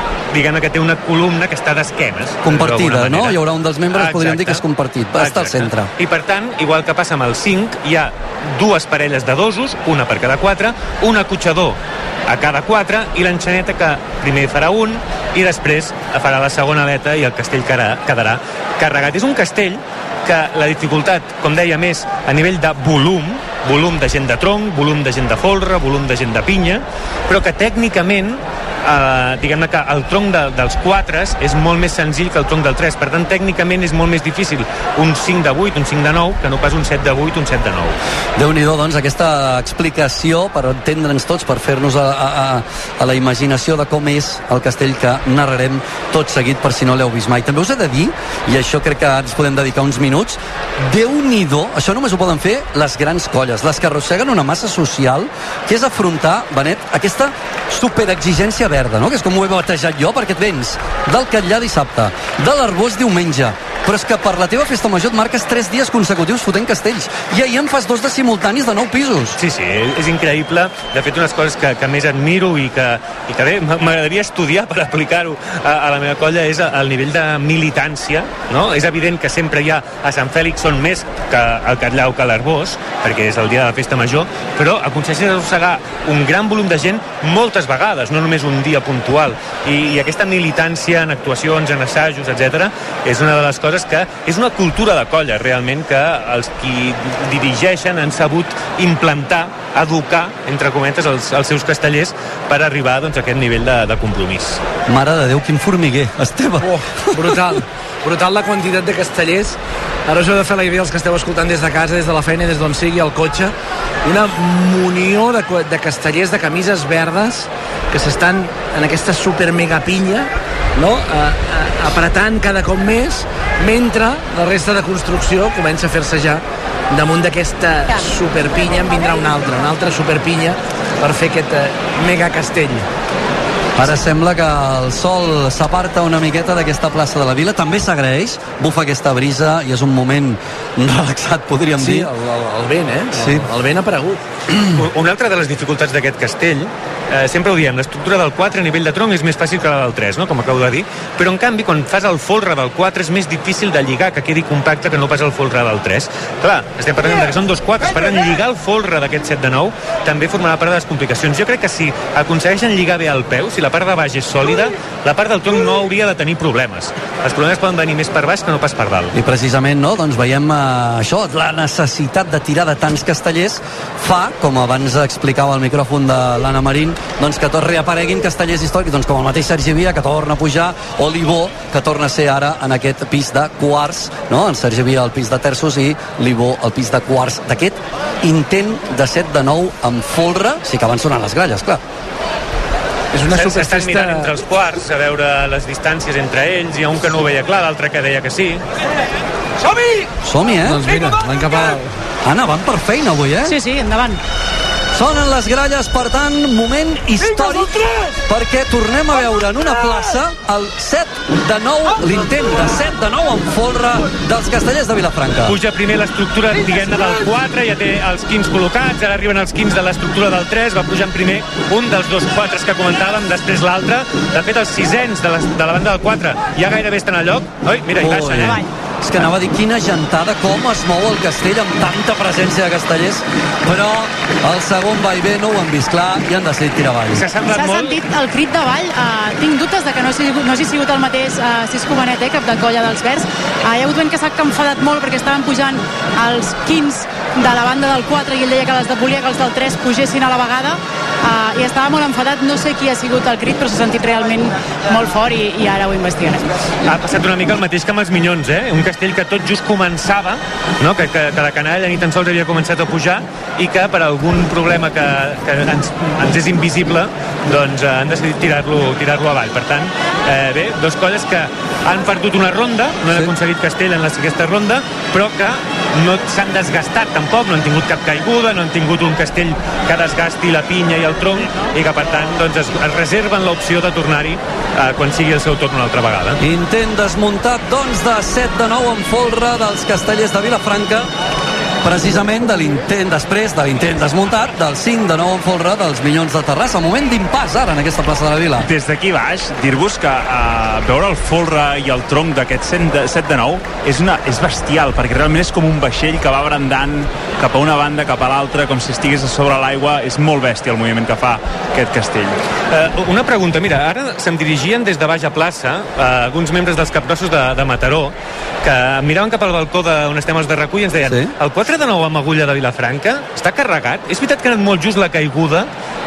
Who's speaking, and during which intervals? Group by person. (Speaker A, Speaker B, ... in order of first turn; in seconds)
Speaker A: 0.3-4.6, 5.2-38.0, 69.4-104.6, 144.8-169.1, 193.3-198.6, 215.4-228.6, 237.1-238.0, 256.8-286.4, 312.7-325.7
Speaker B: 2.4-5.9, 38.4-69.4, 104.9-107.2, 133.8-142.1, 143.2-143.5, 169.1-191.8, 200.2-200.9, 202.2-203.5, 204.9-207.8, 208.2-215.6, 228.0-237.2, 286.4-291.1, 291.8-298.7, 321.1-321.3
Speaker C: 106.6-113.5, 114.0-132.8, 141.8-144.2, 193.1-194.3, 199.7-200.0, 200.6-201.9
Speaker D: 203.4-204.2, 228.3-228.7, 237.5-256.5
Speaker E: 298.6-312.4